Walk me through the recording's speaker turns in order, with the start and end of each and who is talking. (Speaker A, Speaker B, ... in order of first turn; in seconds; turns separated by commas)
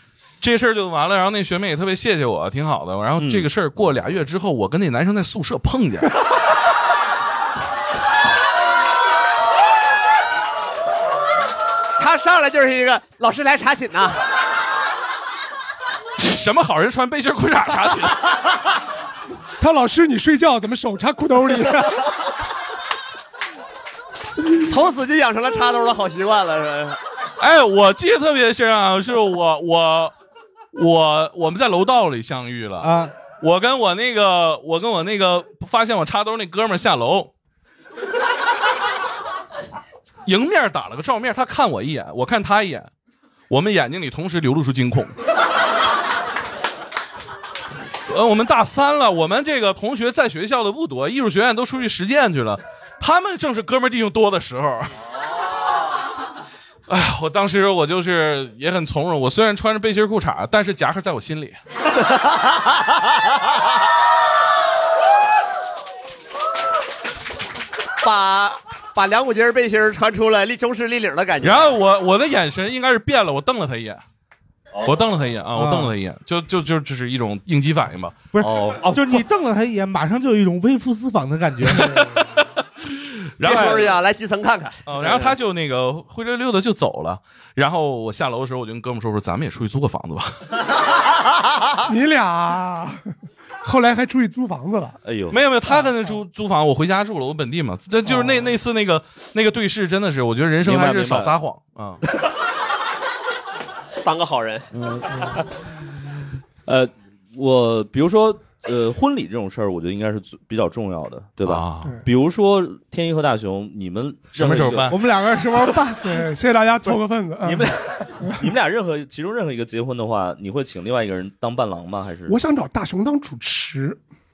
Speaker A: 0.4-6.1, Speaker B: 3.2-3.5, Speaker C: 12.0-14.2, Speaker A: 16.2-18.2, Speaker D: 19.6-22.0, Speaker C: 24.5-27.0, Speaker A: 27.4-30.1, Speaker A: 30.7-37.3, Speaker E: 32.8-33.1, Speaker A: 40.2-42.9, Speaker A: 43.5-45.1, Speaker A: 48.1-54.9, Speaker A: 56.9-61.6, Speaker C: 62.1-62.4, Speaker C: 68.0-71.8, Speaker A: 71.4-74.0, Speaker A: 74.8-78.2, Speaker E: 75.5-75.9, Speaker E: 78.3-82.0, Speaker B: 78.4-79.2, Speaker A: 81.7-83.9, Speaker C: 83.4-85.3, Speaker A: 84.8-90.4, Speaker D: 91.8-93.0, Speaker D: 93.6-95.0, Speaker B: 95.0-95.4, Speaker A: 95.3-102.0, Speaker B: 100.6-101.3, Speaker C: 104.0-104.7, Speaker B: 104.7-105.4, Speaker B: 106.6-114.9, Speaker A: 111.4-112.0, Speaker A: 114.3-115.0, Speaker E: 114.9-116.1, Speaker D: 116.0-117.7, Speaker B: 116.9-122.3, Speaker D: 122.3-124.0